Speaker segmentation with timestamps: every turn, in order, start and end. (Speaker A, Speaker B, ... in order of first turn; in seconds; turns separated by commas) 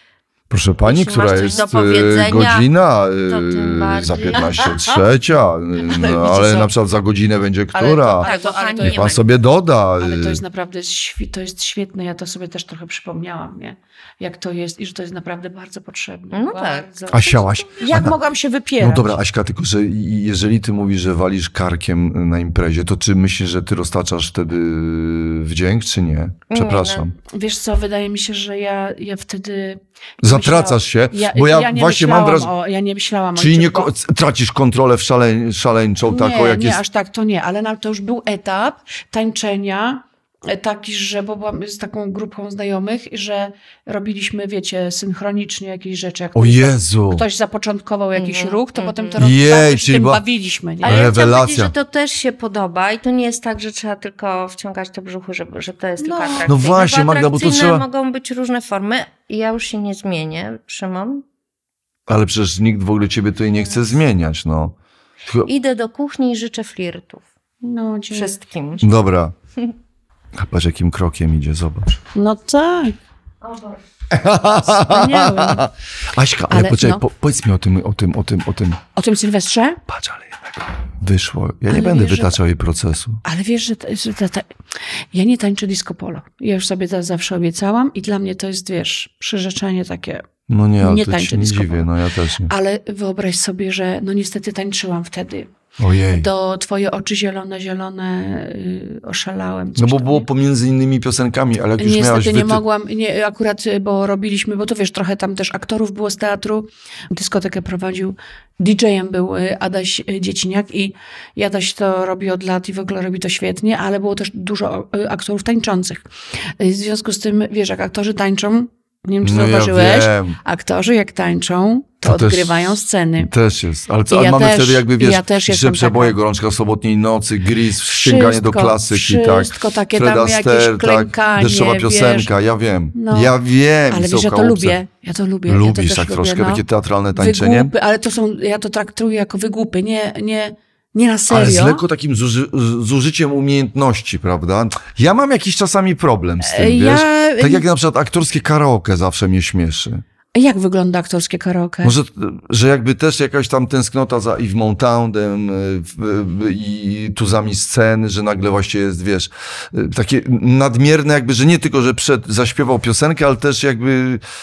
Speaker A: 0.5-8.3, Speaker B: 0.8-2.7, Speaker C: 1.2-1.7, Speaker B: 3.3-4.7, Speaker C: 4.3-5.0, Speaker C: 5.8-6.7, Speaker C: 7.7-9.2, Speaker B: 8.2-9.2, Speaker A: 8.8-10.4, Speaker C: 10.0-19.2, Speaker B: 16.3-18.1, Speaker A: 17.1-18.1, Speaker A: 18.8-27.1, Speaker B: 26.5-27.1, Speaker C: 27.3-33.9, Speaker A: 30.2-32.5, Speaker A: 33.4-36.8, Speaker C: 36.0-51.1, Speaker A: 46.3-47.2, Speaker B: 48.1-49.3, Speaker A: 49.2-50.2, Speaker A: 50.8-51.7, Speaker B: 50.8-61.2, Speaker C: 56.0-56.6, Speaker A: 56.5-57.8, Speaker A: 62.1-64.7, Speaker B: 65.4-67.2, Speaker C: 67.6-68.3, Speaker B: 68.1-68.9, Speaker A: 68.8-69.3, Speaker A: 70.3-72.0, Speaker C: 72.1-73.0, Speaker B: 73.4-73.8, Speaker A: 74.1-78.8, Speaker C: 74.8-75.6, Speaker B: 75.1-75.5, Speaker C: 76.5-77.0, Speaker C: 79.0-79.8, Speaker A: 79.9-83.2, Speaker C: 81.7-82.4, Speaker C: 83.2-84.5, Speaker C: 85.1-90.2, Speaker A: 90.5-92.5, Speaker C: 90.8-91.9, Speaker C: 92.5-95.5, Speaker A: 95.8-96.3, Speaker C: 96.1-100.2, Speaker A: 99.8-102.6, Speaker C: 101.8-123.3, Speaker A: 119.2-120.4, Speaker A: 122.0-134.8, Speaker C: 124.1-126.2, Speaker C: 127.8-132.3, Speaker C: 132.9-133.3, Speaker C: 133.9-136.6, Speaker A: 135.5-137.7, Speaker C: 137.1-141.8, Speaker A: 141.3-150.0, Speaker C: 146.4-147.6, Speaker C: 150.3-152.0, Speaker A: 151.8-164.2